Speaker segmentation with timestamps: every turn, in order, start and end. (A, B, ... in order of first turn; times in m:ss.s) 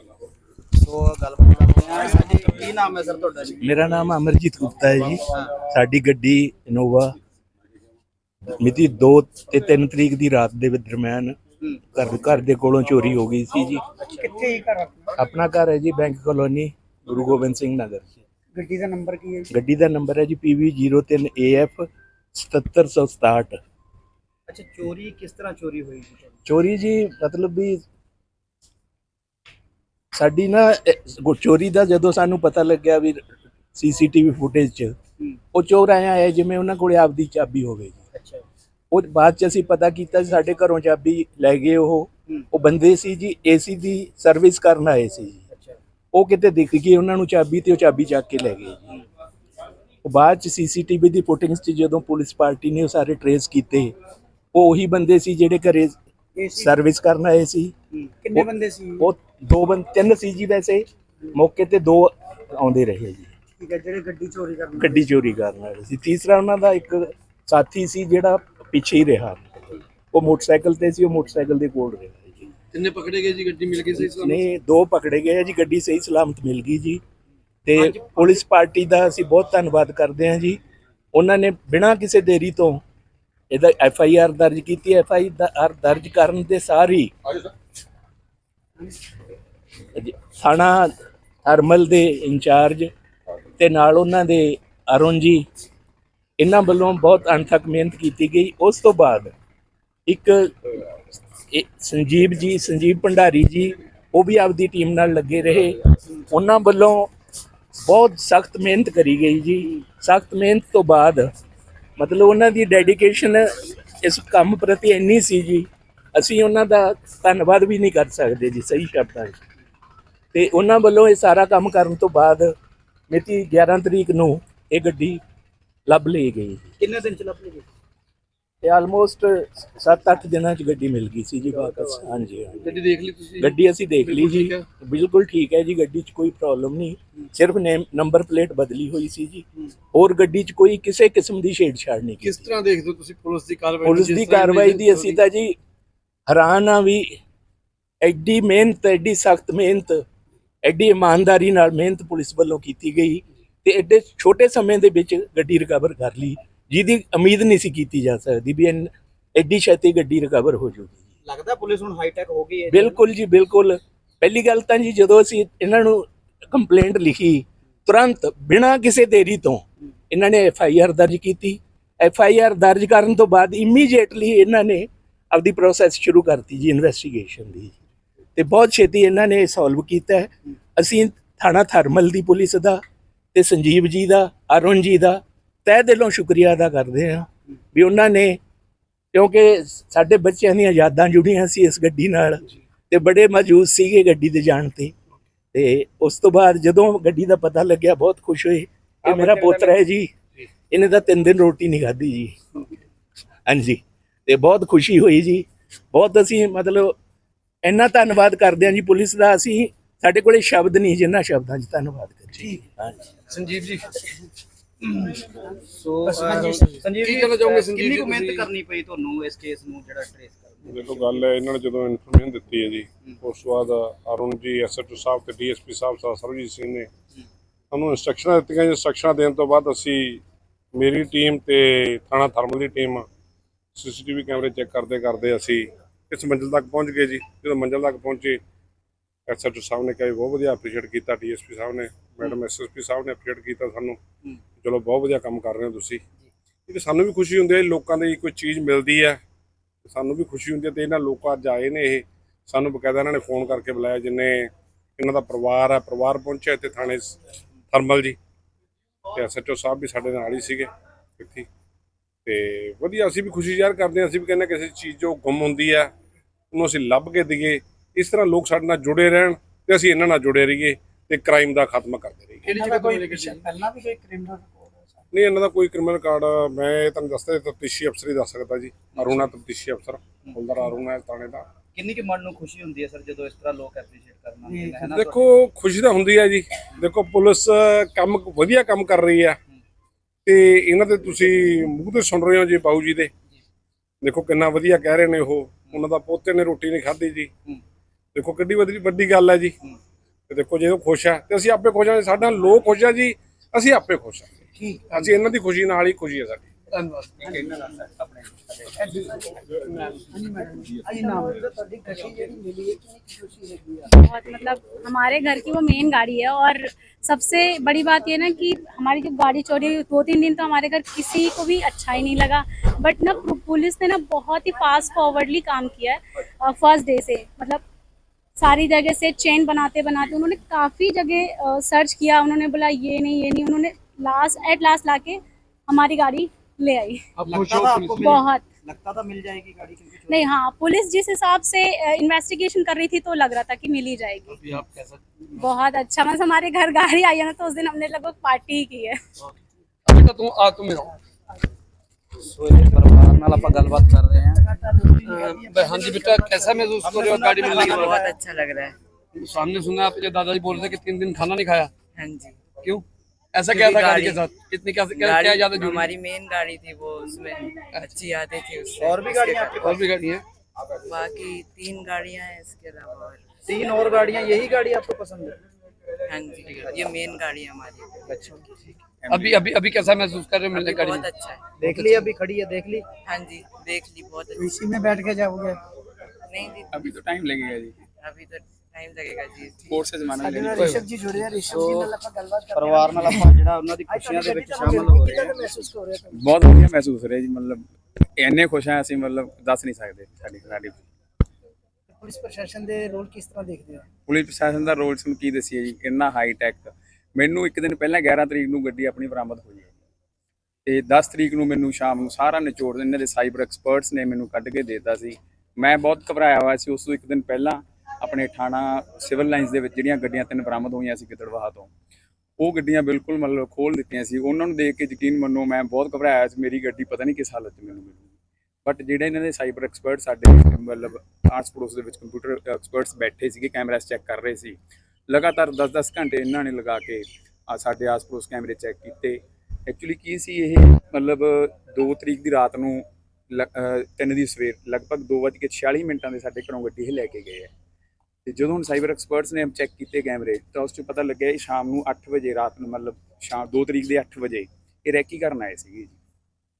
0:00.7-0:03.6 A
0:03.6-0:07.1 B
0:08.5-0:11.4 B
0:11.9-0:13.8 B
0:14.0-0:14.3 A
0:14.1-0:15.1 C
0:15.1-0:18.1 B
0:18.5-0:19.5 C
0:19.5-0:23.6 B
0:24.5-0:26.4 A
0:26.4-0:27.8 B
0:30.1-0:33.2 B
0:33.7-0:34.9 B
0:35.5-0:38.0 B
0:38.1-0:38.4 A
0:38.9-0:45.4 B
0:45.5-0:45.8 A
0:46.1-0:48.9 B
0:50.0-0:53.9 B
0:54.5-0:56.0 B
0:56.4-0:56.7 C
0:56.5-0:57.7 B
0:58.2-0:59.0 C
0:58.3-1:03.3 B
1:03.6-1:05.0 C
1:04.8-1:12.5 B
1:12.7-1:14.4 D
1:14.0-1:17.0 B
1:17.6-1:20.6 B
1:21.1-1:22.8 B
1:23.5-1:27.1 B
1:29.9-1:30.9 B
1:31.4-1:32.9 B
1:33.6-1:35.4 B
1:36.4-1:39.3 B
1:40.1-1:47.1 B
1:47.8-1:51.3 B
1:52.0-1:59.3 B
2:00.3-2:02.5 B
2:03.1-2:05.2 B
2:05.9-2:06.7 B
2:06.8-2:07.6 A
2:08.6-2:12.8 B
2:12.6-2:14.6 D
2:13.4-2:22.5 B
2:22.2-2:25.2 D
2:23.8-2:25.6 B
2:26.3-2:27.2 B
2:28.0-2:30.0 B
2:30.6-2:41.1 B
2:41.2-2:43.0 A
2:42.7-2:57.8 B
2:58.4-3:02.8 B
3:03.3-3:08.4 B
3:09.1-3:14.9 B
3:15.5-3:20.1 B
3:19.0-3:19.7 A
3:20.7-3:22.4 B
3:23.4-3:27.0 B
3:27.6-3:33.0 B
3:33.3-3:34.0 D
3:34.8-3:41.3 A
3:36.1-3:36.8 C
3:36.5-3:38.5 D
3:40.7-3:46.9 E
3:47.7-3:50.2 E
3:50.7-3:53.1 E
3:53.7-3:58.4 E
3:59.3-4:04.0 E
4:04.6-4:06.0 E
4:06.7-4:09.2 E
4:09.8-4:17.2 E
4:17.7-4:18.2 E
4:19.1-4:20.7 E
4:21.2-4:21.5 E
4:22.2-4:25.9 E
4:26.5-4:32.5 E
4:32.4-4:33.6 D
4:32.7-4:35.0 C
4:35.1-4:41.4 E
4:39.0-4:39.2 A
4:41.7-4:45.2 A
4:44.5-4:44.8 C
4:44.9-4:49.4 E
4:50.2-4:53.1 E
4:54.0-4:57.3 E
4:58.1-4:59.6 E
5:00.3-5:04.3 E
5:04.5-5:04.9 C
5:04.9-5:06.5 E
5:06.7-5:07.2 D
5:07.2-5:08.6 F
5:08.8-5:13.9 C
5:13.9-5:27.6 G
5:28.4-5:37.0 G
5:37.2-5:38.2 D
5:37.3-5:40.2 A
5:38.0-5:38.4 G
5:40.1-5:44.4 G
5:44.3-5:45.0 D
5:45.3-5:49.0 G
5:49.8-5:51.0 D
5:52.2-5:54.7 A
5:54.6-5:55.0 C
5:55.0-5:58.0 D
5:56.8-5:58.1 A
5:57.4-5:58.8 H
5:59.1-6:01.7 D
6:01.9-6:02.4 H
6:02.6-6:05.9 D
6:03.5-6:04.2 H
6:04.9-6:09.6 H
6:07.6-6:08.0 D
6:08.8-6:09.8 A
6:09.6-6:10.2 D
6:10.8-6:13.2 H
6:13.4-6:15.4 A
6:16.1-6:18.1 H
6:16.6-6:16.9 A
6:18.1-6:18.4 A
6:19.0-6:19.9 F
6:19.1-6:21.1 D
6:20.5-6:21.4 H
6:21.6-6:22.8 A
6:21.6-6:22.1 D
6:23.0-6:24.6 H
6:24.4-6:25.6 C
6:26.3-6:26.9 H
6:26.7-6:27.8 F
6:28.0-6:29.8 H
6:29.6-6:30.8 F
6:30.2-6:33.3 C
6:30.5-6:30.9 D
6:31.4-6:31.9 A
6:32.5-6:35.6 A
6:33.9-6:36.2 C
6:36.2-6:37.6 F
6:38.2-6:40.8 F
6:41.9-6:43.8 C
6:44.1-6:49.7 F
6:50.6-7:01.7 F
7:02.4-7:08.1 F
7:08.6-7:14.6 F
7:15.1-7:27.5 F
7:28.2-7:36.0 F